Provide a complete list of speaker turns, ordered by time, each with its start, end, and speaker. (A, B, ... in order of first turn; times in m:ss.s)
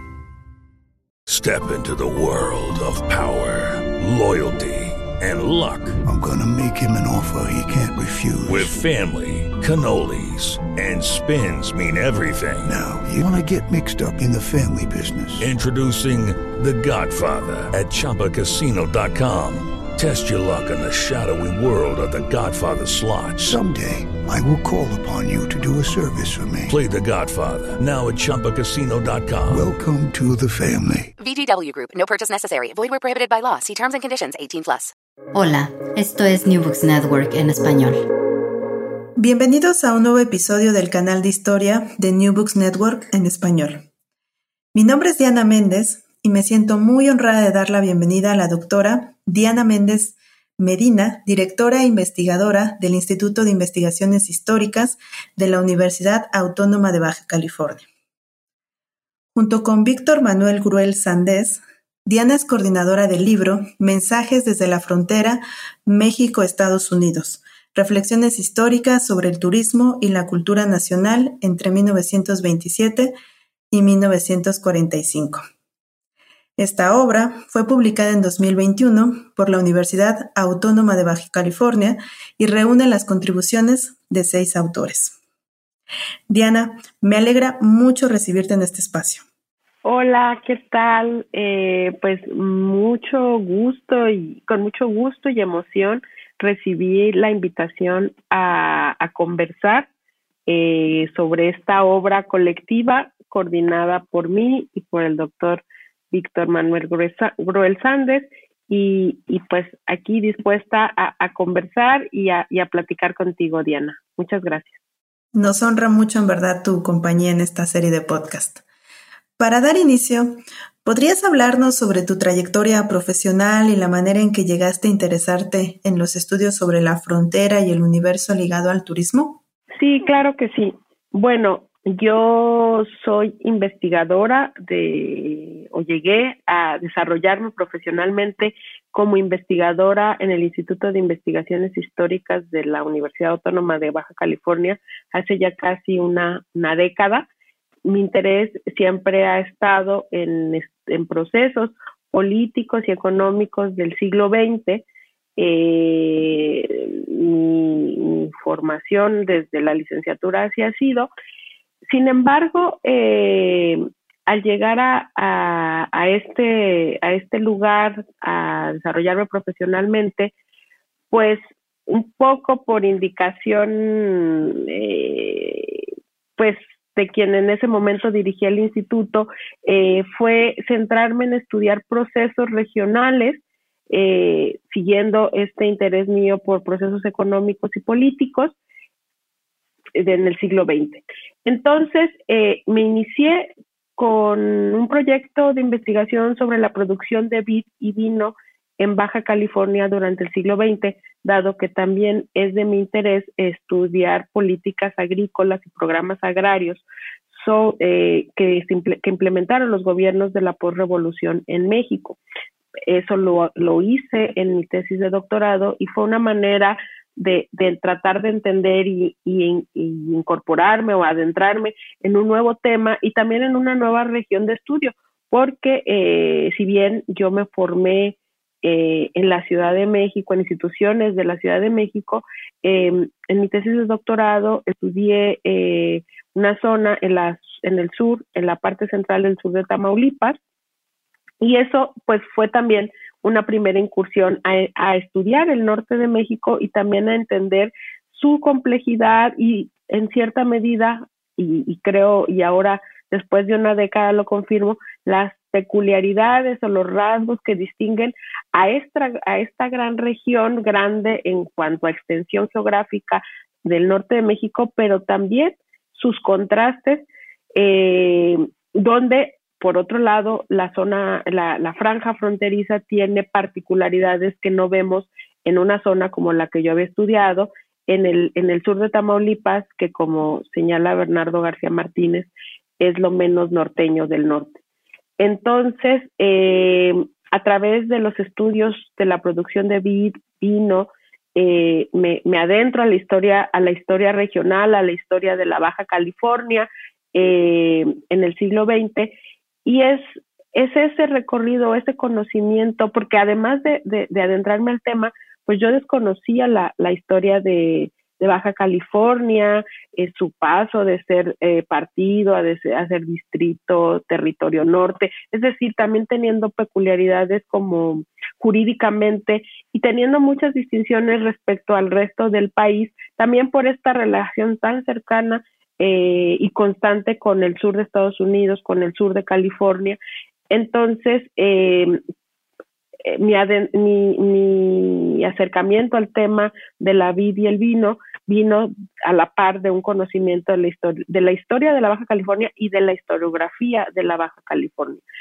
0:01.3-0:06.0 A
0:06.0-0:08.8 B
0:08.4-0:12.7 A
0:12.7-0:15.4 B
0:15.4-0:23.6 A
0:23.4-0:26.8 B
0:26.7-0:29.7 A
0:29.5-0:31.1 B
0:31.2-0:34.9 C
0:35.3-0:38.0 D
0:39.2-0:43.8 E
0:44.7-0:57.8 E
0:59.3-1:13.1 E
1:13.7-1:15.4 E
1:16.6-1:25.2 E
1:26.3-1:29.2 E
1:29.8-1:39.9 F
1:40.5-1:54.8 F
1:55.3-1:58.6 E
1:59.4-2:09.4 E
2:09.8-2:27.3 F
2:27.8-2:34.8 F
2:35.4-2:41.1 F
2:41.9-2:50.3 F
2:51.1-2:55.9 F
2:56.4-3:08.6 F
3:10.0-3:32.2 F
3:32.9-4:00.4 F
4:01.4-4:44.6 F
4:45.2-5:30.0 F
5:30.5-5:32.0 F
5:33.0-5:45.0 F